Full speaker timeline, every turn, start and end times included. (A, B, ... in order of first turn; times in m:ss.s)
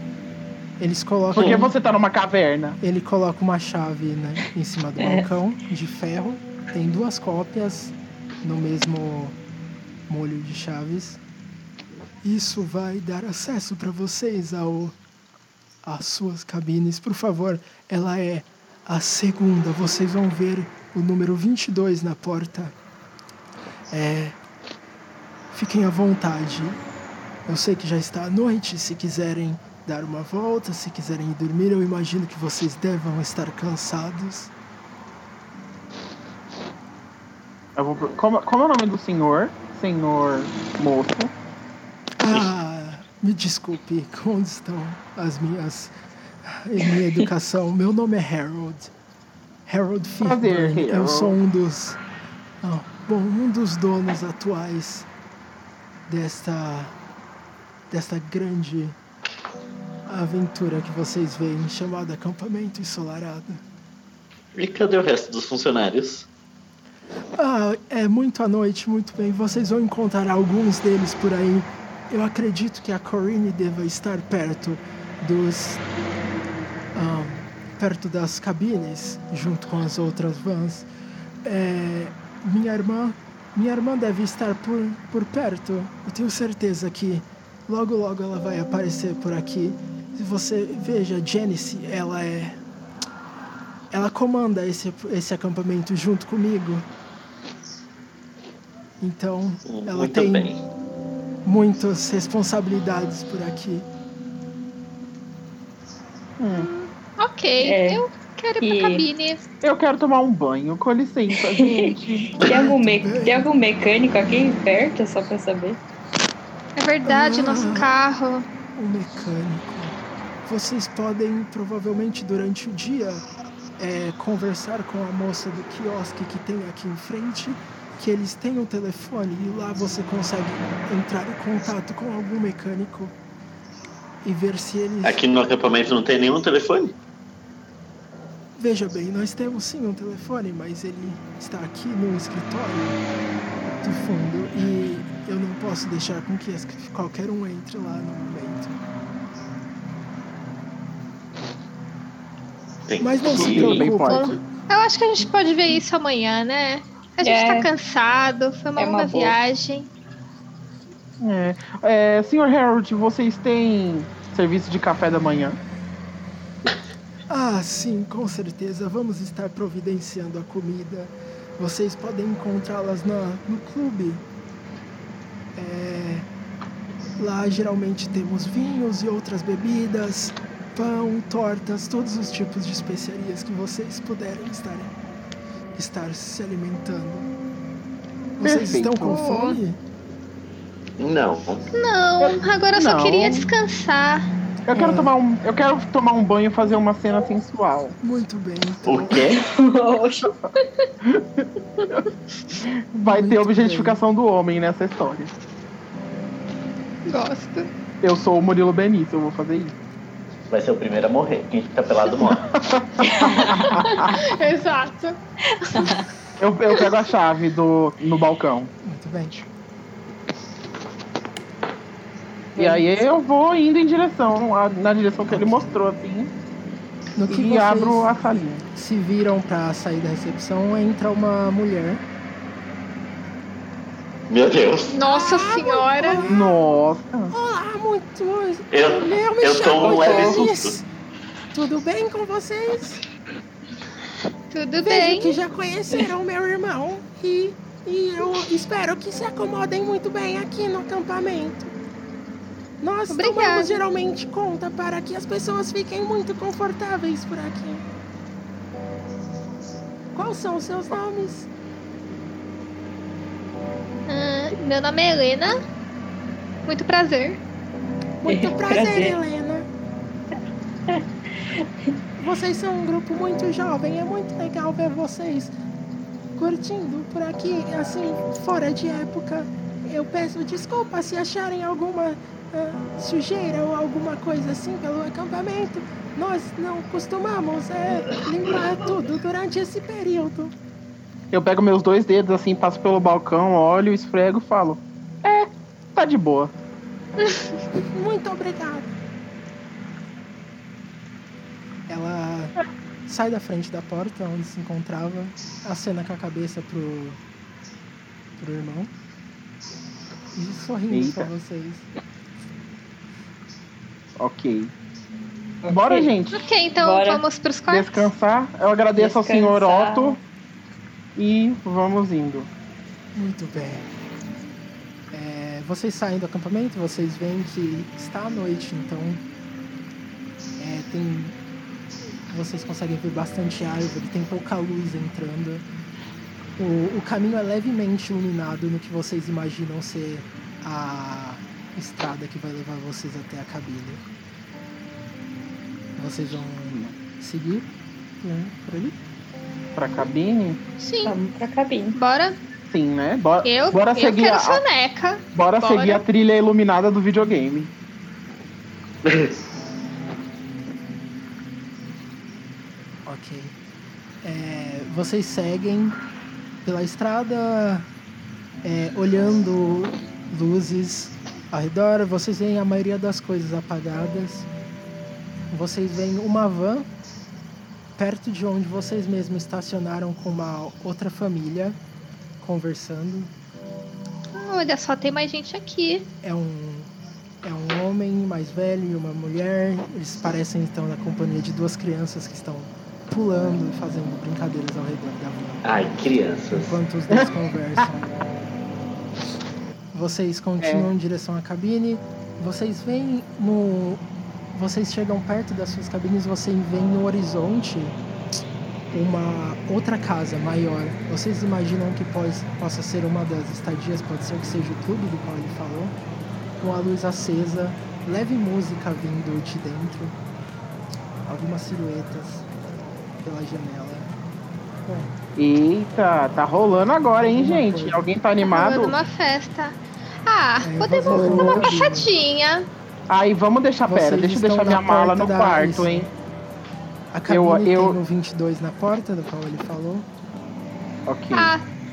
0:00.8-0:01.7 A
0:01.3-0:02.8 B
0:02.8-0:09.4 A
0:05.0-0:05.4 C
0:10.1-0:11.2 A
0:12.2-0:15.0 A
0:15.8-0:22.8 A
0:23.9-0:24.4 A
0:25.5-0:26.8 A
0:27.5-0:34.5 A
0:37.8-0:41.3 B
0:42.2-0:48.9 A
0:49.7-0:52.0 A
0:50.2-0:51.4 B
0:52.6-0:55.1 A
0:56.1-0:56.9 A
0:57.9-0:59.0 A
1:00.1-1:03.6 A
1:04.6-1:06.3 D
1:07.4-1:15.8 A
1:17.0-1:20.9 A
1:21.4-1:32.6 A
1:33.9-1:36.9 A
1:39.0-1:40.6 A
1:39.6-1:40.6 D
1:41.4-1:43.9 A
1:46.4-1:46.7 B
1:46.5-1:49.4 E
1:47.6-1:48.0 C
1:48.6-1:49.1 C
1:49.6-1:52.4 B
1:51.4-1:55.8 C
1:52.4-1:53.5 A
1:56.8-1:58.5 E
1:57.0-1:57.9 A
1:58.8-2:03.3 A
2:03.8-2:13.2 A
2:14.2-2:15.2 A
2:15.0-2:17.0 D
2:18.6-2:23.0 A
2:23.8-2:28.8 A
2:32.9-2:33.8 D
2:33.0-2:34.4 A
2:33.3-2:34.4 B
2:33.6-2:39.9 E
2:37.2-2:37.7 C
2:38.8-2:39.4 C
2:41.2-2:45.6 B
2:47.3-2:54.2 A
2:55.6-2:56.3 A
2:57.2-3:05.0 A
3:05.8-3:07.3 A
3:08.4-3:09.8 A
3:08.4-3:09.2 B
3:08.6-3:09.6 E
3:11.0-3:11.7 D
3:11.7-3:14.3 E
3:12.2-3:13.5 B
3:14.7-3:18.0 B
3:14.7-3:15.1 A
3:18.0-3:19.3 A
3:18.8-3:19.3 D
3:19.1-3:19.4 B
3:19.3-3:20.3 C
3:21.0-3:22.0 B
3:22.6-3:25.3 B
3:23.1-3:24.0 A
3:27.1-3:27.7 E
3:28.0-3:29.8 B
3:30.5-3:32.5 D
3:32.5-3:34.2 B
3:33.1-3:33.7 C
3:33.4-3:35.9 E
3:35.7-3:36.1 C
3:36.4-3:38.7 B
3:38.8-3:39.5 A
3:42.6-3:43.0 C
3:42.6-3:46.3 B
3:45.2-3:45.8 A
3:47.2-3:52.0 A
3:47.3-3:48.6 B
3:54.3-3:55.0 D
3:54.9-3:56.3 E
3:55.1-3:56.6 A
3:56.2-3:57.3 B
3:57.3-4:00.9 A
3:58.7-4:00.7 D
3:59.8-4:00.5 B
4:01.5-4:03.0 A
4:04.5-4:05.4 E
4:04.8-4:11.7 A
4:12.8-4:17.8 A
4:13.1-4:13.8 E
4:20.1-4:21.5 A
4:24.1-4:25.6 E
4:26.7-4:27.4 E
4:28.2-4:29.7 A
4:28.3-4:29.2 C
4:31.6-4:31.9 C
4:32.2-4:35.6 A
4:36.4-4:50.5 A
4:51.3-4:56.5 B
4:57.8-4:58.9 A
5:01.9-5:02.6 A
5:03.1-5:07.2 A
5:08.4-5:08.9 A
5:10.3-5:11.9 A
5:10.9-5:11.3 B
5:14.2-5:14.7 B
5:15.6-5:16.1 C
5:15.7-5:16.4 B
5:16.3-5:18.1 E
5:16.8-5:17.2 C
5:17.7-5:20.2 B
5:19.0-5:20.2 C
5:21.2-5:22.5 B
5:23.2-5:23.9 A
5:25.1-5:29.2 A
5:30.6-5:31.4 A
5:32.3-5:35.7 A
5:36.6-5:44.0 A
5:46.0-5:47.7 A
5:46.7-5:46.9 B
5:48.2-5:49.0 A
5:49.8-5:50.6 B
5:50.8-5:51.2 E
5:51.0-5:52.0 C
5:52.0-5:52.4 E
5:52.7-5:54.6 B
5:53.4-5:56.0 E
5:55.4-5:57.7 B
5:59.0-5:59.4 D
6:03.1-6:03.6 A
6:04.2-6:06.0 A
6:06.6-6:07.9 A
6:08.6-6:14.5 A
6:15.5-6:16.9 A
6:18.0-6:21.8 A
6:22.4-6:23.3 A
6:24.3-6:26.1 E
6:26.2-6:26.9 A
6:27.4-6:35.6 A
6:35.6-6:36.8 D
6:36.5-6:38.1 A
6:39.9-6:48.0 A
6:40.6-6:40.9 B
6:48.9-6:56.0 A
6:56.6-7:00.2 A
7:01.3-7:02.5 A
7:03.2-7:04.1 A
7:04.9-7:05.1 A
7:05.4-7:09.0 B
7:07.2-7:08.1 A
7:08.4-7:12.7 E
7:10.6-7:12.1 A
7:13.1-7:16.1 B
7:13.9-7:16.1 A
7:17.1-7:20.1 A
7:17.3-7:18.0 B
7:21.1-7:21.5 B
7:21.3-7:21.6 E